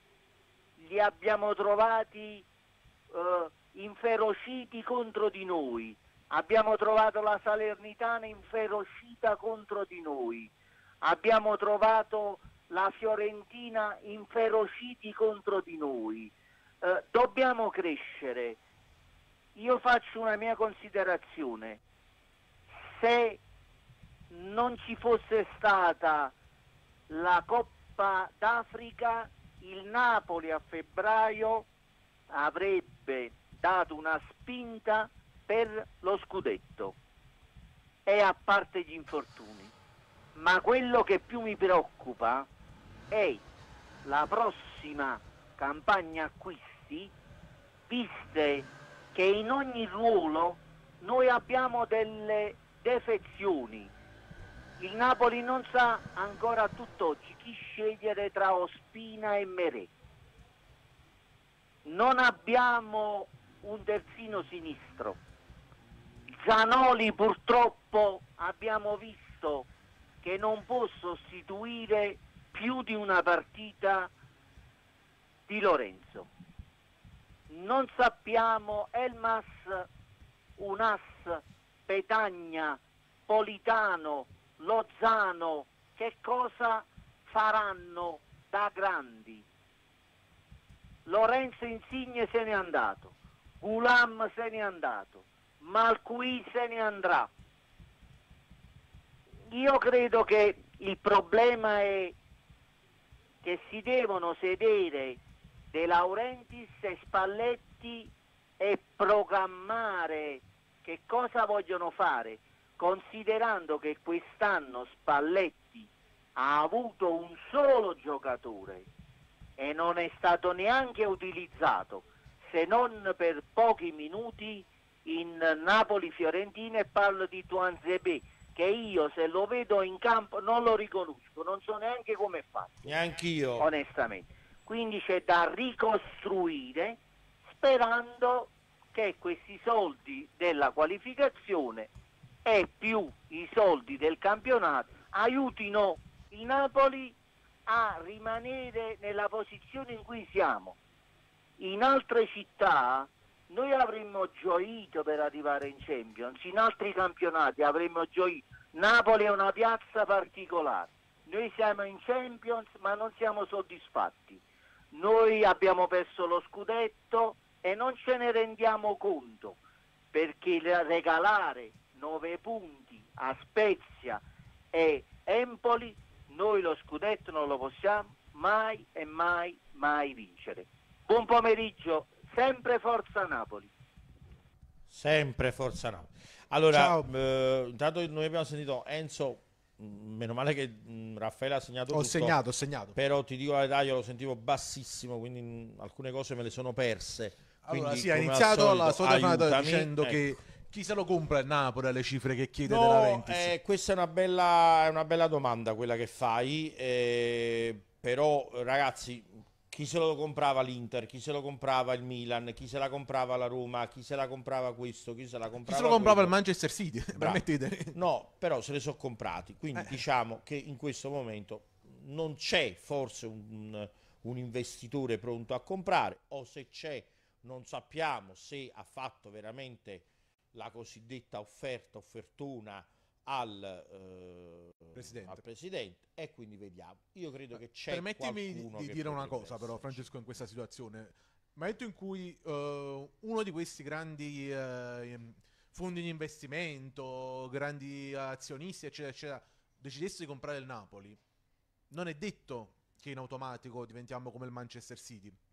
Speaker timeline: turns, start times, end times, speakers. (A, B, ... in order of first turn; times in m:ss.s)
0:00.8-0:02.5 A
0:03.1-0:18.6 A
0:19.6-0:21.8 A
0:22.8-0:23.4 A
0:24.3-0:26.3 A
0:27.1-0:31.7 A
0:32.3-0:37.0 A
0:38.1-0:39.7 A
0:40.4-0:42.5 A
0:43.1-0:43.4 A
0:44.0-0:47.1 A
0:47.9-0:53.9 A
0:54.8-0:59.9 A
1:01.8-1:05.2 A
1:06.4-1:09.7 A
1:10.2-1:14.1 A
1:15.5-1:16.3 A
1:17.5-1:19.9 A
1:20.6-1:29.5 A
1:31.1-1:37.3 A
1:39.5-1:42.2 A
1:43.4-1:45.2 A
1:45.7-1:58.9 A
1:59.6-2:12.8 A
2:12.8-2:13.7 B
2:13.6-2:21.9 A
2:22.4-2:30.8 A
2:31.6-2:49.6 A
2:50.1-3:03.7 A
3:04.9-3:12.4 B
3:06.7-3:07.1 C
3:11.9-3:13.0 C
3:12.9-3:20.4 B
3:17.6-3:23.5 C
3:22.7-3:36.4 B
3:35.6-3:38.0 C
3:37.2-4:00.1 B
3:55.0-3:55.4 C
3:57.9-4:11.2 C
4:11.9-4:15.4 C